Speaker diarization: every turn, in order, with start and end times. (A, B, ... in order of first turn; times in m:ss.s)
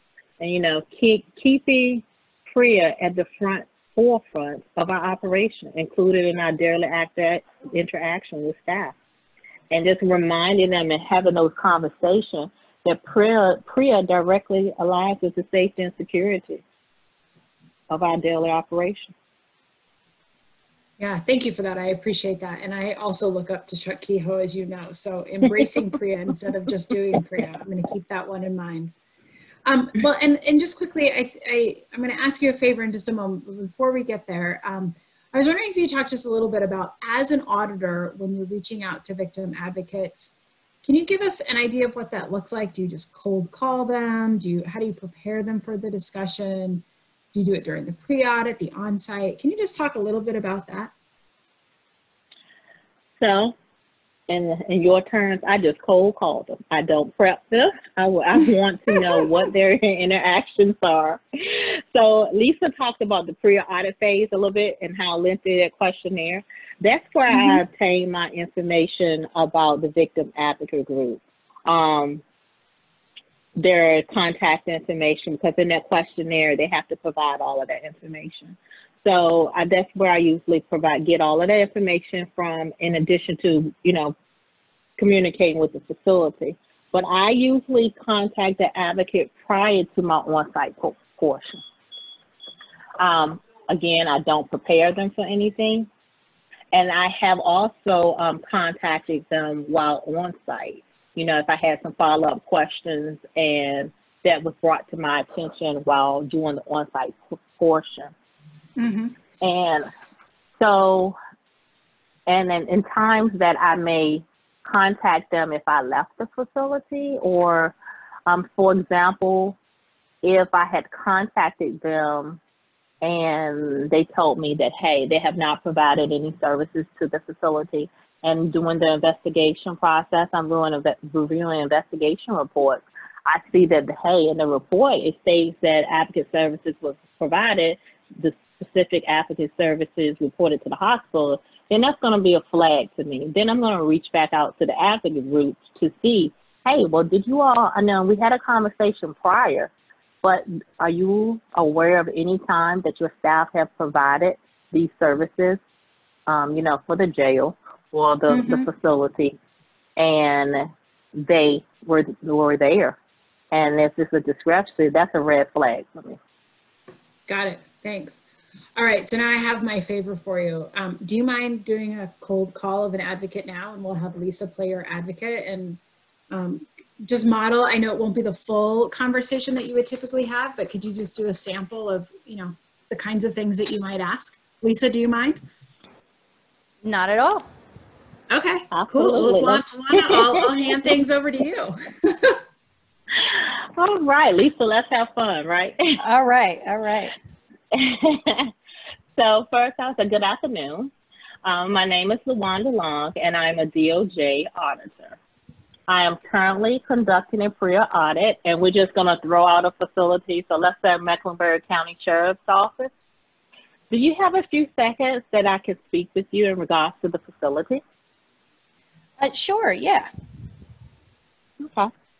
0:00.4-0:08.9 A
0:09.7-0:16.6 A
0:17.9-0:19.1 A
0:21.0-0:28.9 B
0:29.6-0:50.9 B
0:53.2-0:53.6 A
0:54.3-1:12.2 A
1:07.3-1:07.6 B
1:13.6-1:24.1 A
1:25.0-1:31.6 A
1:33.0-1:35.9 A
1:36.7-1:48.1 A
1:48.8-1:49.2 B
1:49.4-1:49.9 A
1:50.6-1:51.2 A
1:52.3-1:57.7 A
1:58.2-1:59.6 A
2:00.2-2:02.4 A
2:03.0-2:29.7 A
2:30.2-2:35.6 A
2:36.3-2:39.4 A
2:38.3-2:38.7 B
2:40.0-2:43.0 A
2:43.5-2:46.2 A
2:47.3-2:48.2 B
2:48.8-2:55.8 B
2:56.3-3:05.4 B
3:06.8-3:07.4 C
3:08.3-3:12.4 B
3:08.7-3:10.4 A
3:13.1-3:16.0 A
3:16.0-3:17.2 C
3:17.7-3:18.5 A
3:19.2-3:20.9 A
3:21.4-3:25.2 A
3:25.9-3:32.9 A
3:33.9-3:37.8 A
3:39.2-3:40.1 C
3:41.6-3:41.9 A